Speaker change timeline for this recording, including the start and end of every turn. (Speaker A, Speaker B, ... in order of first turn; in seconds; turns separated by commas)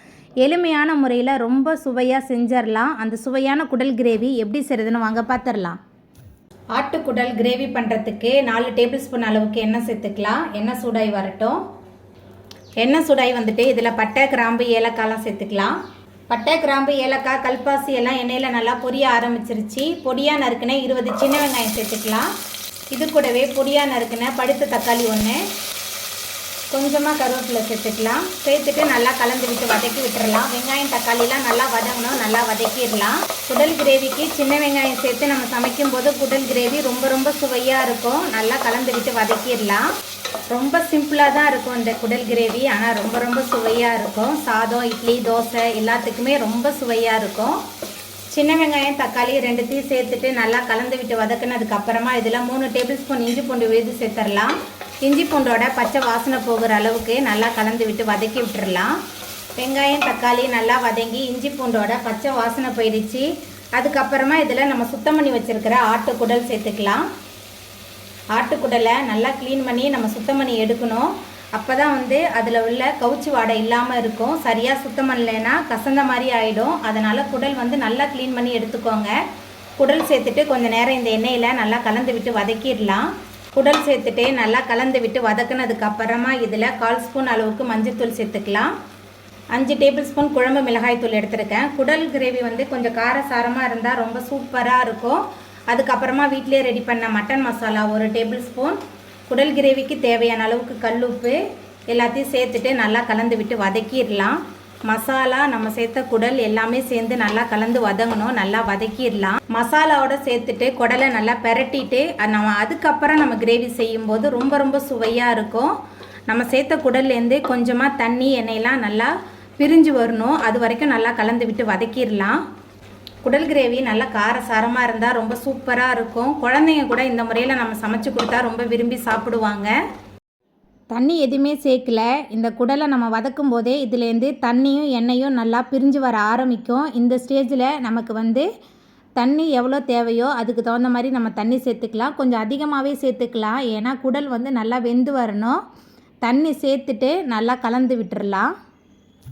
Speaker A: 0.4-5.8, Speaker A: 6.7-11.6, Speaker A: 12.8-15.8, Speaker A: 16.3-22.3, Speaker A: 22.9-25.4, Speaker A: 26.7-39.8, Speaker A: 40.5-47.5, Speaker A: 48.3-54.5, Speaker A: 55.0-58.9, Speaker A: 59.6-67.0, Speaker A: 68.3-79.1, Speaker A: 79.8-88.7, Speaker A: 89.5-115.7, Speaker A: 116.3-122.4, Speaker A: 123.2-129.7, Speaker A: 130.9-138.5, Speaker A: 139.2-145.6, Speaker A: 146.2-148.5